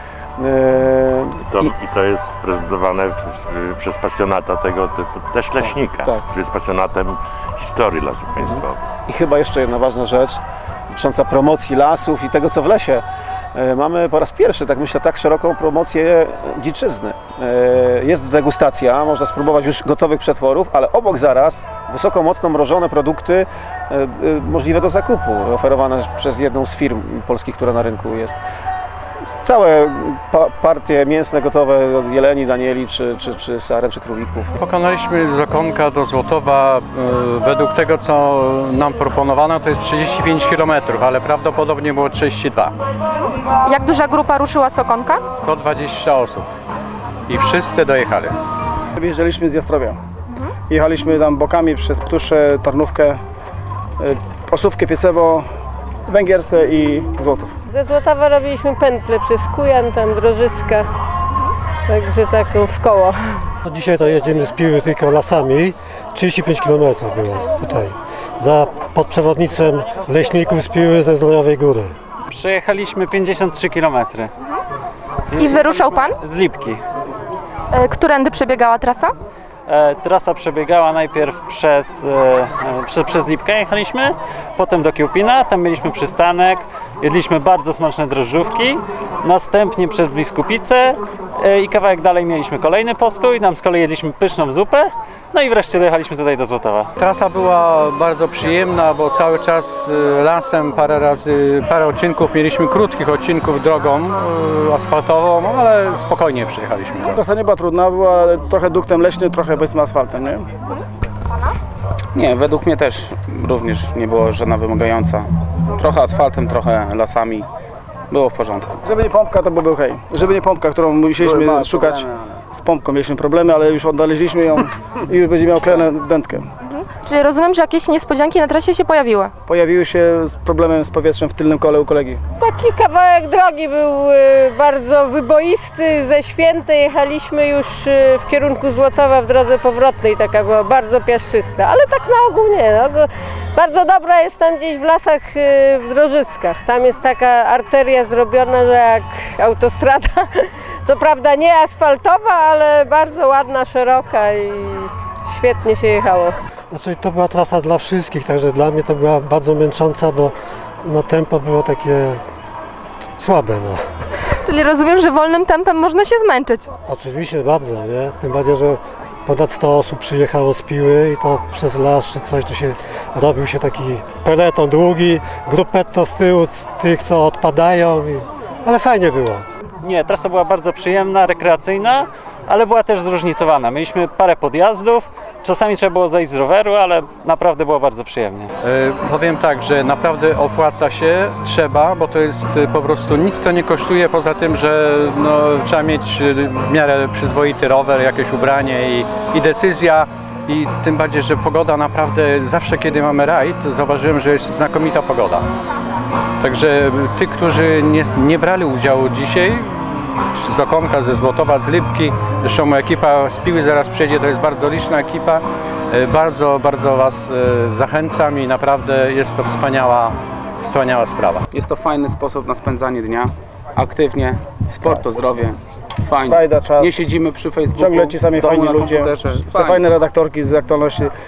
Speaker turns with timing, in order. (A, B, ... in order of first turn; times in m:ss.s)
0:00.4-0:01.7 A
0:01.5-0:08.9 B
0:05.6-0:06.2 A
0:09.1-0:28.4 A
0:29.4-0:34.6 A
0:34.6-0:42.8 C
0:43.6-0:45.2 D
0:45.4-0:46.5 C
0:47.3-0:48.4 C
0:49.0-0:50.0 E
0:50.6-0:53.2 E
0:54.0-0:55.5 E
0:56.1-0:57.5 E
0:57.7-1:00.9 F
1:01.9-1:03.2 F
1:03.6-1:12.0 G
1:12.3-1:14.3 H
1:15.3-1:16.8 H
1:15.4-1:16.2 D
1:17.7-1:19.2 D
1:19.7-1:36.9 H
1:37.0-1:47.2 C
1:47.0-1:50.5 E
1:52.1-1:57.5 I
1:58.1-1:58.9 I
1:58.9-2:06.5 E
2:01.2-2:02.3 I
2:06.7-2:09.3 D
2:09.5-2:12.2 E
2:12.4-2:36.4 F
2:36.7-2:42.2 G
2:43.2-2:43.8 G
2:44.4-2:46.7 D
2:46.8-2:59.4 G
2:59.8-3:08.5 H
3:08.6-3:25.5 C
3:26.4-3:41.4 C
3:41.5-3:49.9 I
3:46.3-3:46.9 E
3:47.8-3:51.1 E